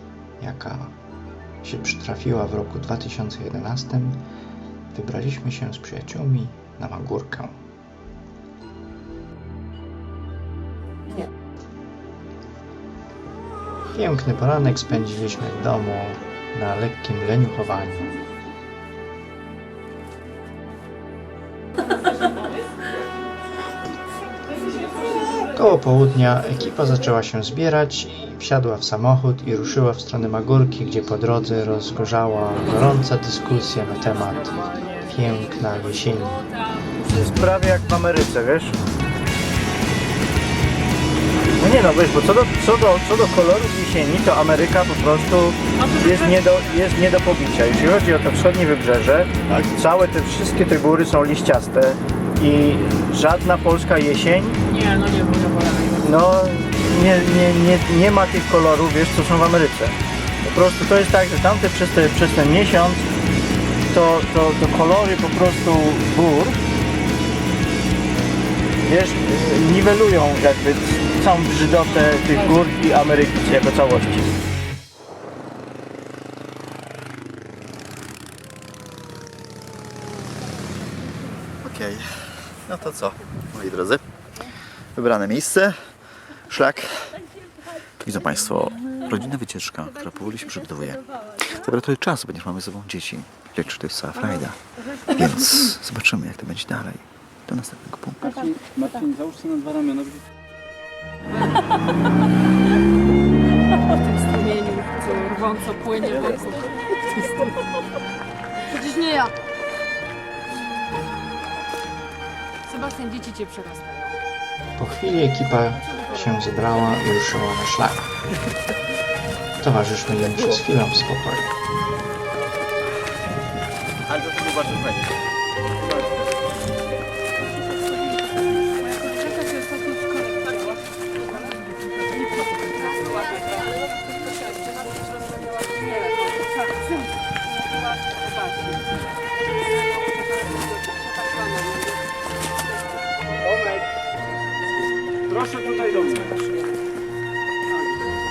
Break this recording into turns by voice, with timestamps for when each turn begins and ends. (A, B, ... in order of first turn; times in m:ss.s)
0:00.4-0:00.9 A
0:01.6-0:04.2 A
0:04.9-0:07.6 A
0:13.9-0:18.1 A
0:25.5-0:36.4 A
0:34.6-0:35.0 B
0:37.0-0:38.8 B
0:41.6-0:54.6 B
0:45.8-0:46.4 C
0:54.7-0:56.1 C
0:56.0-1:03.0 B
1:03.9-1:06.6 B
1:08.8-1:14.3 B
1:21.6-1:24.0 D
1:24.9-1:25.8 D
1:26.5-1:27.2 D
1:28.0-1:38.2 D
1:38.2-1:40.2 E
1:44.2-1:46.5 C
1:52.7-1:54.2 C
1:54.8-1:58.1 A
1:59.6-2:01.5 A
2:15.4-2:16.4 C
2:20.4-2:21.0 C
2:25.3-2:26.3 E